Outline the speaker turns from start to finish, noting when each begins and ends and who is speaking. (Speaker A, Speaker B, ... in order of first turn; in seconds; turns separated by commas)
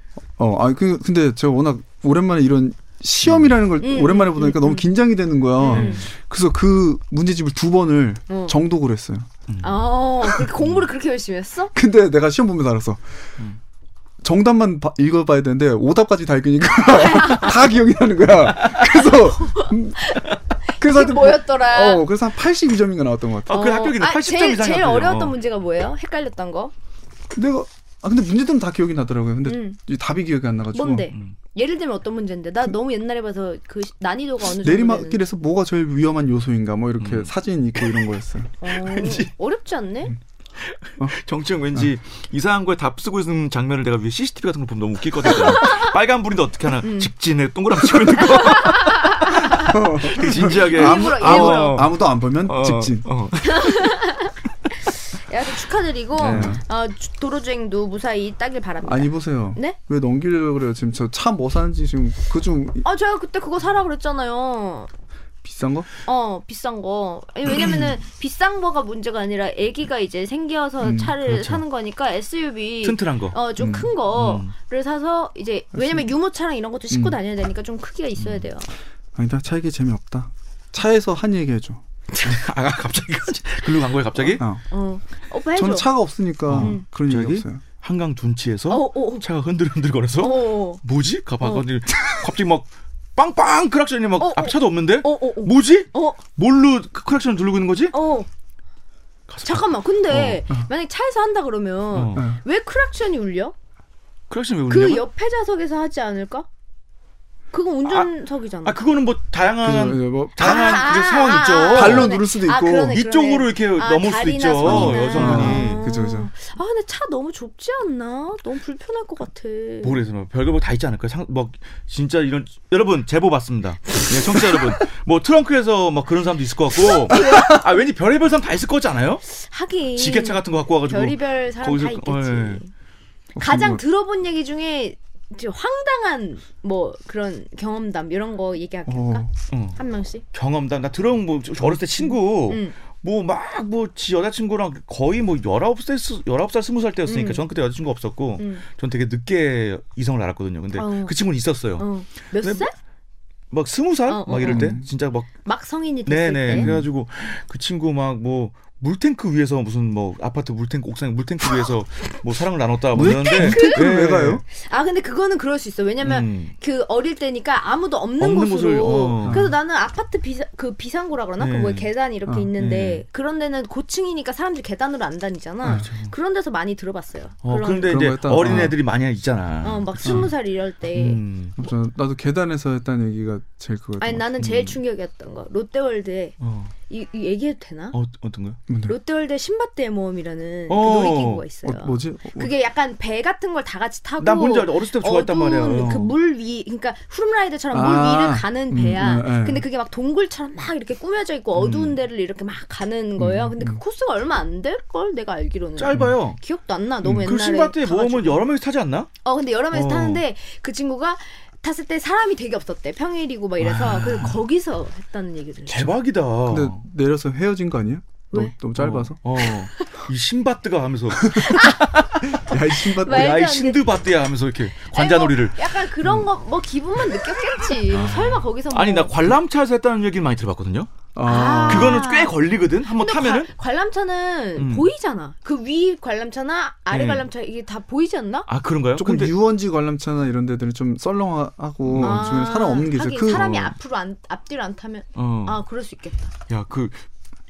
Speaker A: 0.4-9.3, Speaker B: 3.2-3.6, Speaker C: 3.8-4.9, Speaker C: 5.6-6.0, Speaker B: 5.6-6.0, Speaker C: 8.3-8.5, Speaker B: 9.5-9.8, Speaker C: 9.6-11.7, Speaker A: 11.7-13.0, Speaker A: 14.2-20.2, Speaker C: 16.9-17.7, Speaker C: 19.4-22.1, Speaker A: 20.8-23.6, Speaker B: 23.5-25.4, Speaker C: 23.5-26.7, Speaker A: 27.3-31.1, Speaker C: 29.4-29.8, Speaker C: 30.7-35.2, Speaker A: 34.6-38.5, Speaker B: 37.0-38.1, Speaker C: 38.6-40.1, Speaker B: 38.7-39.3, Speaker B: 40.6-53.8, Speaker C: 45.3-45.9, Speaker C: 46.8-47.1, Speaker C: 48.1-51.8, Speaker A: 49.6-53.1, Speaker C: 53.4-59.8, Speaker B: 56.2-56.6, Speaker A: 56.2-56.6, Speaker A: 58.8-62.8, Speaker C: 62.8-64.9, Speaker A: 65.4-65.9, Speaker C: 66.0-78.7, Speaker A: 70.8-71.1, Speaker B: 71.2-71.6, Speaker B: 72.8-73.4, Speaker A: 73.6-73.9, Speaker B: 74.1-74.5, Speaker A: 75.7-76.1, Speaker A: 76.9-77.2, Speaker B: 78.2-78.5, Speaker A: 79.1-81.8, Speaker B: 82.2-84.4, Speaker A: 84.4-84.6, Speaker C: 84.7-85.9, Speaker A: 85.5-87.6, Speaker B: 86.5-97.9, Speaker C: 86.6-86.8, Speaker C: 88.7-89.2, Speaker C: 90.2-90.8, Speaker C: 91.4-91.7, Speaker C: 94.2-96.2, Speaker C: 97.9-98.3, Speaker B: 99.3-100.4, Speaker C: 99.4-103.5, Speaker B: 101.9-102.2, Speaker A: 102.1-102.4, Speaker B: 104.3-105.0, Speaker C: 104.7-106.5, Speaker C: 107.5-108.8, Speaker B: 107.8-108.1, Speaker B: 108.6-112.2, Speaker A: 109.6-110.8, Speaker C: 110.4-120.0, Speaker A: 111.7-113.0, Speaker B: 112.9-115.8, Speaker A: 114.6-116.3, Speaker B: 119.8-129.2, Speaker C: 126.8-127.6, Speaker C: 129.3-132.7, Speaker B: 129.9-132.6, Speaker A: 133.3-133.8, Speaker C: 133.4-140.2, Speaker A: 138.9-139.3, Speaker B: 139.5-139.8, Speaker B: 140.3-151.9, Speaker C: 142.0-142.7, Speaker C: 147.1-147.4, Speaker C: 148.4-148.6, Speaker C: 150.8-151.2, Speaker C: 151.8-152.7, Speaker B: 152.4-152.7, Speaker B: 153.5-155.3, Speaker C: 154.1-154.8, Speaker A: 154.4-154.8, Speaker C: 155.4-156.7, Speaker B: 156.1-164.4, Speaker A: 156.5-156.9, Speaker A: 162.9-164.4, Speaker C: 163.0-163.9, Speaker C: 164.5-178.7, Speaker B: 166.0-166.5, Speaker B: 168.2-169.5, Speaker A: 169.2-169.5, Speaker B: 171.4-171.9, Speaker B: 172.6-173.0, Speaker B: 175.6-176.1, Speaker B: 177.4-180.3, Speaker A: 177.8-178.8, Speaker C: 179.6-181.2, Speaker A: 180.0-180.3, Speaker B: 180.9-181.6, Speaker A: 181.6-184.5, Speaker C: 184.0-186.3, Speaker B: 184.4-184.8, Speaker B: 186.4-186.7, Speaker C: 186.9-187.9, Speaker B: 187.9-188.6, Speaker A: 188.7-188.9, Speaker C: 188.9-208.4, Speaker B: 190.7-191.4, Speaker A: 191.7-192.5, Speaker B: 194.2-196.1, Speaker A: 197.7-199.7, Speaker B: 201.6-202.0, Speaker A: 203.2-203.8, Speaker B: 205.8-206.4, Speaker A: 205.9-206.2, Speaker B: 207.0-209.1, Speaker C: 209.2-215.9, Speaker B: 209.7-210.2, Speaker B: 213.6-214.4, Speaker B: 215.7-216.8, Speaker A: 216.5-219.2, Speaker B: 218.8-222.2, Speaker A: 221.3-221.5, Speaker C: 221.3-221.8, Speaker A: 222.4-223.4, Speaker C: 222.8-223.9, Speaker B: 222.9-225.7, Speaker C: 224.8-229.1, Speaker B: 227.9-230.9, Speaker A: 227.9-228.4, Speaker A: 231.1-232.1, Speaker C: 231.2-232.3, Speaker B: 231.6-233.5, Speaker C: 232.9-238.5, Speaker B: 234.6-234.9, Speaker B: 236.9-237.3, Speaker B: 238.5-239.3, Speaker A: 238.9-243.7, Speaker B: 241.8-242.3, Speaker C: 242.0-246.3, Speaker B: 243.2-243.7, Speaker B: 245.1-245.6, Speaker B: 246.5-247.0